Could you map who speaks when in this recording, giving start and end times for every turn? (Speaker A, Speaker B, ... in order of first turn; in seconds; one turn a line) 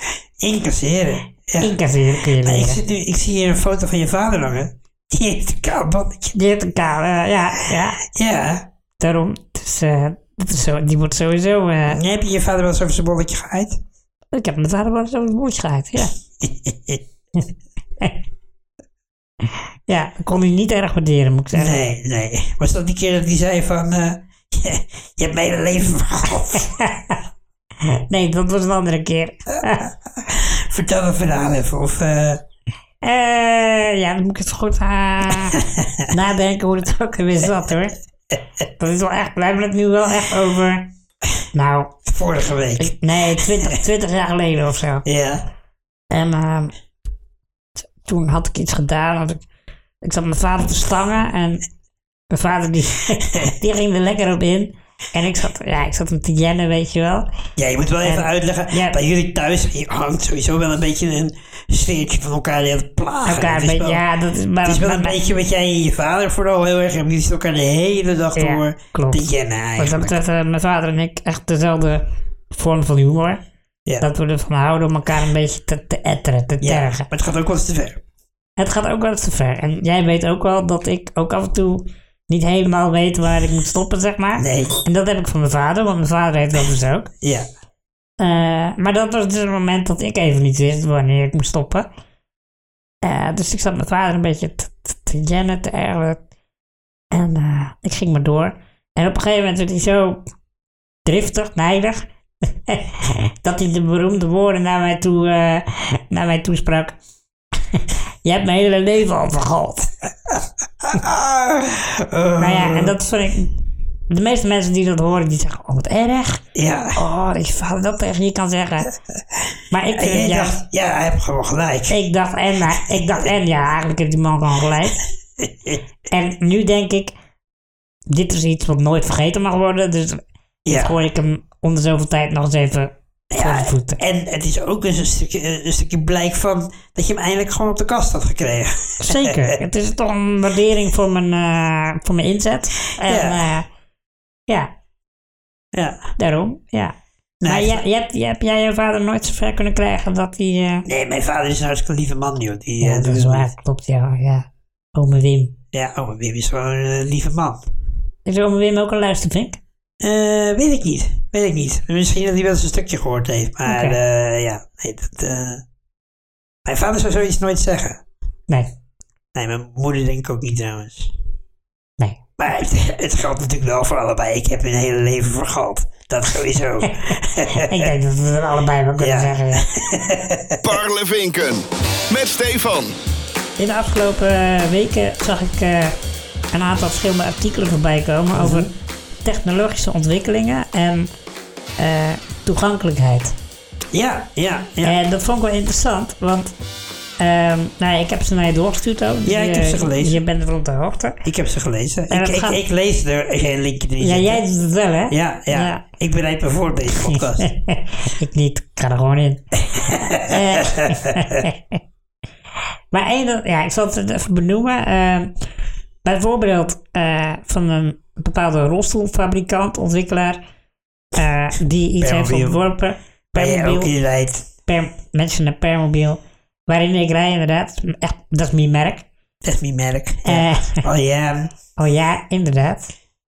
Speaker A: 0.4-1.8
Speaker B: 1.6-2.8
Speaker A: 2.4-6.4
Speaker B: 6.3-8.0
Speaker A: 7.6-8.7
Speaker B: 9.0-12.0
Speaker A: 11.9-13.8
Speaker B: 14.3-16.1
Speaker A: 16.4-17.0
Speaker B: 19.5-21.8
Speaker A: 21.5-26.8
Speaker B: 26.7-27.2
Speaker B: 27.8-29.9
Speaker A: 29.8-32.4
Speaker B: 33.0-38.0
Speaker A: 35.6-36.0
Speaker B: 38.8-40.9
Speaker B: 41.5-42.0
Speaker A: 42.1-43.8
Speaker B: 42.8-45.0
Speaker A: 45.0-45.5
Speaker B: 46.1-46.7
Speaker B: 48.0-49.4
Speaker B: 50.0-51.6
Speaker B: 52.3-57.3
Speaker A: 57.6-64.0
Speaker B: 58.0-59.0
Speaker B: 63.2-65.2
Speaker A: 64.6-70.2
Speaker B: 68.4-73.4
Speaker B: 74.0-77.1
Speaker A: 76.6-78.0
Speaker B: 78.6-87.1
Speaker A: 84.4-84.8
Speaker A: 87.2-87.5
Speaker B: 88.2-91.9
Speaker B: 93.0-96.2
Speaker B: 97.1-100.2
Speaker B: 101.1-102.0
Speaker B: 102.7-107.0
Speaker B: 107.7-109.9
Speaker A: 110.8-113.0
Speaker B: 112.4-113.5
Speaker B: 114.1-116.4
Speaker A: 116.5-117.0
Speaker B: 117.0-119.0
Speaker B: 119.7-120.6
Speaker A: 119.9-122.0
Speaker B: 121.9-125.0
Speaker A: 125.4-125.8
Speaker B: 126.1-127.1
Speaker B: 128.1-134.0
Speaker A: 130.7-130.9
Speaker A: 133.3-139.6
Speaker B: 139.0-143.7
Speaker A: 143.0-143.5
Speaker A: 145.7-146.1
Speaker B: 146.2-150.9
Speaker A: 147.4-147.8
Speaker A: 150.9-153.5
Speaker B: 152.8-155.6
Speaker A: 155.7-157.6
Speaker B: 158.3-159.6
Speaker A: 160.0-165.6
Speaker B: 163.7-164.0
Speaker A: 166.7-168.0
Speaker B: 168.5-168.7
Speaker A: 169.3-171.1
Speaker A: 172.4-177.9
Speaker B: 176.8-179.7
Speaker A: 179.0-180.8
Speaker C: 180.6-182.9
Speaker B: 183.6-186.0
Speaker B: 186.5-188.7
Speaker A: 188.3-188.7
Speaker B: 189.2-191.1
Speaker B: 191.8-193.4
Speaker A: 193.9-195.0
Speaker B: 194.8-196.5
Speaker B: 197.2-201.2
Speaker A: 199.2-200.2
Speaker A: 201.2-204.4
Speaker B: 202.1-202.6
Speaker B: 204.0-205.8
Speaker A: 205.1-207.5
Speaker B: 207.0-209.4
Speaker A: 209.7-211.4
Speaker B: 210.2-211.8
Speaker B: 212.9-215.3
Speaker B: 216.0-220.4
Speaker B: 221.1-223.9
Speaker A: 222.0-222.6
Speaker A: 223.3-224.5
Speaker B: 224.7-229.1
Speaker A: 229.4-231.5
Speaker B: 230.3-230.9
Speaker B: 231.8-232.9